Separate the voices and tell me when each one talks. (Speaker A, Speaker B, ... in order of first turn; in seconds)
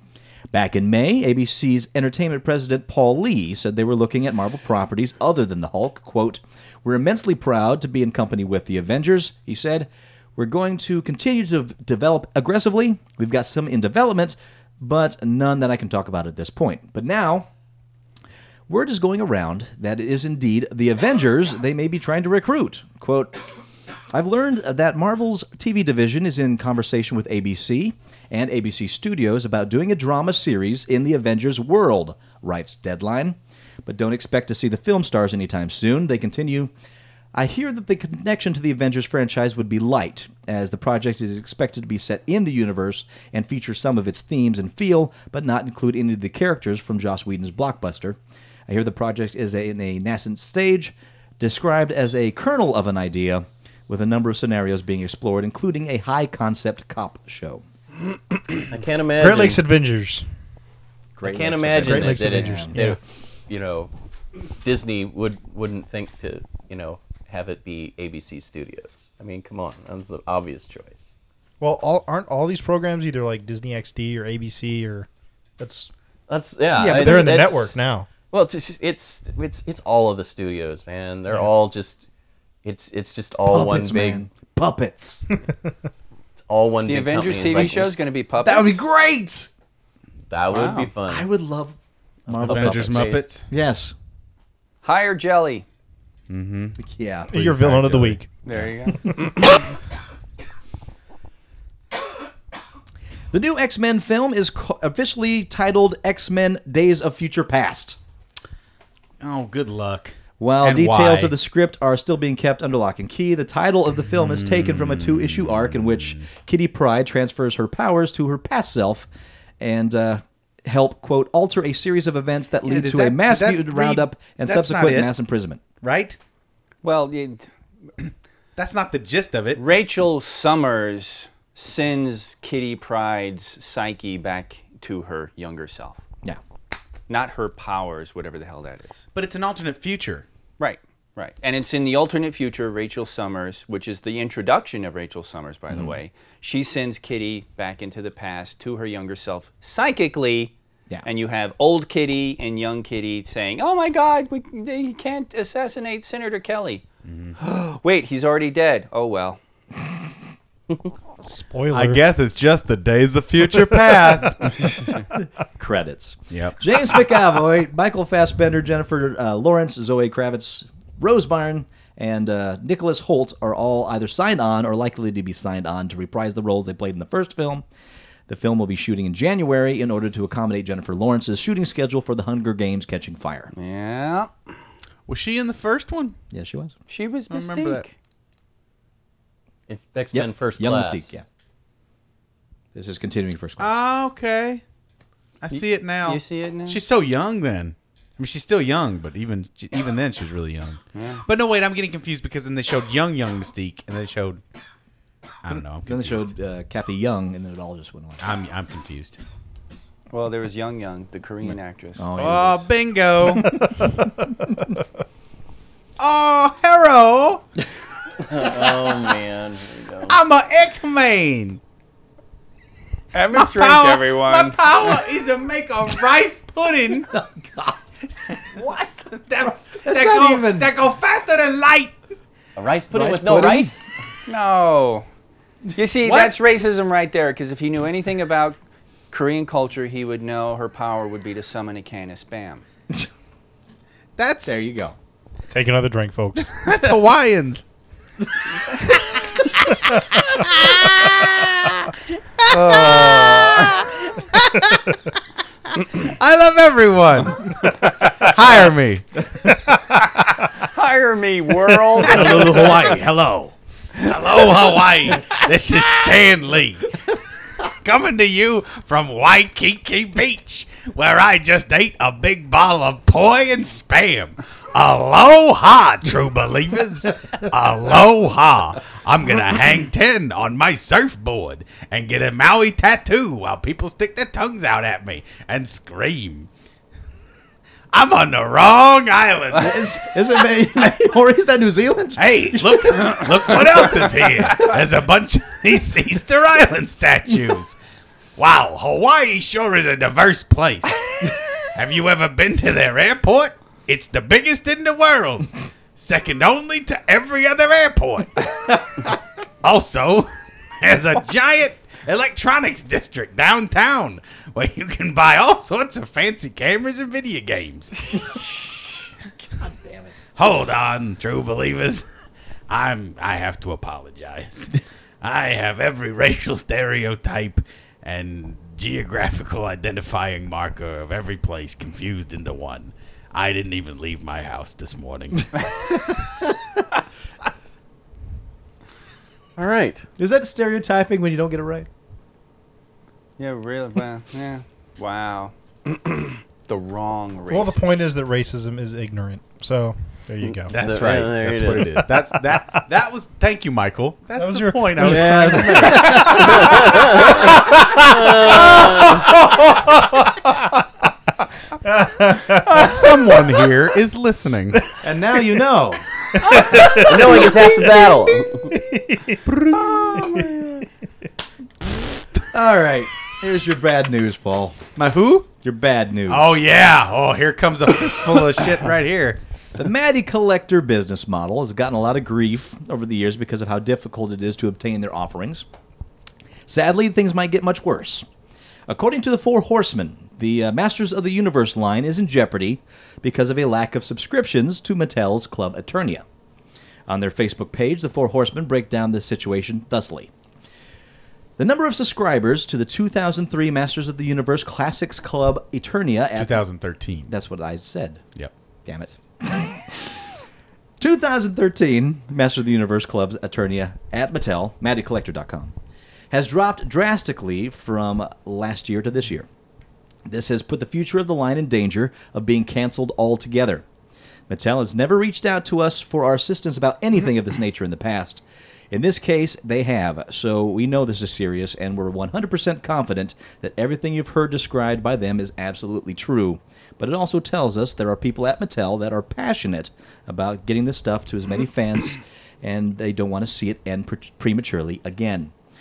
Speaker A: 0.5-17.5, 18.7-23.4, 24.1-36.7, 37.3-48.2, 48.7-57.6, 61.2-62.8, 76.8-77.3, 83.5-85.3, 88.4-89.5, 91.1-91.8, 92.3-93.9, 96.8-97.7, 103.3-108.0, 110.4-119.1, 119.6-125.6, 165.6-177.7, 178.3-183.5, 186.3-186.7, 190.1-191.2, 192.7-193.7, 205.9-208.2, 212.0-212.7, 227.1-227.8, 229.8-230.7, 232.9-233.9, 244.4-245.0, 262.0-263.5, 289.5-293.1, 319.6-320.1, 340.2-341.9, 355.0-356.9, 365.0-366.0, 366.8-367.5, 369.6-370.5, 372.5-374.8, 375.6-376.6, 379.8-385.6, 386.7-388.3, 388.9-396.2, 397.1-400.3, 401.6-406.6, 407.3-408.2, 408.9-410.2, 411.0-415.7, 416.3-419.5, 420.3-423.8, 424.5-445.5
Speaker B: 58.7-59.6, 61.2-63.9, 64.6-71.1, 76.3-77.8, 78.3-82.0, 82.6-84.3, 86.5-87.9, 90.3-91.3, 92.3-93.3, 189.7-191.1, 218.2-220.2, 232.6-233.9, 339.6-340.1, 350.6-352.0, 356.4-357.4, 358.0-359.3, 366.8-368.8
Speaker C: 59.2-60.2, 61.8-63.0, 71.6-75.1, 75.6-75.9, 76.8-78.1, 97.3-98.4, 161.2-162.0, 245.5-246.6, 347.5-350.8, 354.4-359.7, 361.8-363.0, 366.4-367.5, 368.7-369.5, 370.1-370.8
Speaker D: 86.9-88.8, 90.5-90.9, 94.8-95.7, 98.4-99.5, 126.8-127.5, 129.6-136.0, 137.1-139.0, 140.6-156.8, 157.4-159.4, 183.5-184.3, 186.9-187.9, 195.5-196.8, 200.9-201.2, 210.1-212.1, 223.1-224.6, 234.3-235.1, 235.8-238.6, 239.1-242.6, 252.5-253.8, 259.9-263.0, 343.4-347.9
Speaker E: 92.4-93.5, 96.3-96.8, 97.3-98.2, 109.2-111.3, 114.2-116.2, 122.6-125.1, 125.8-126.2, 128.6-129.6, 139.2-140.2, 157.1-157.4, 161.7-164.8, 166.3-166.9, 185.1-186.2, 187.3-187.8, 193.6-194.6, 195.4-204.4, 205.4-206.3, 208.2-209.2, 212.2-213.6, 216.0-217.4, 220.1-221.6, 223.3-227.1, 228.3-232.0, 236.0-236.3, 244.2-244.6, 246.5-247.6, 248.8-254.9, 255.8-259.1, 262.3-262.9, 263.9-267.0, 267.6-286.5, 287.9-290.1, 292.2-297.8, 298.4-309.1, 309.6-319.1, 320.4-322.1, 322.7-336.0, 350.7-356.9, 362.5-364.8, 375.0-375.5, 376.3-379.4, 406.4-407.3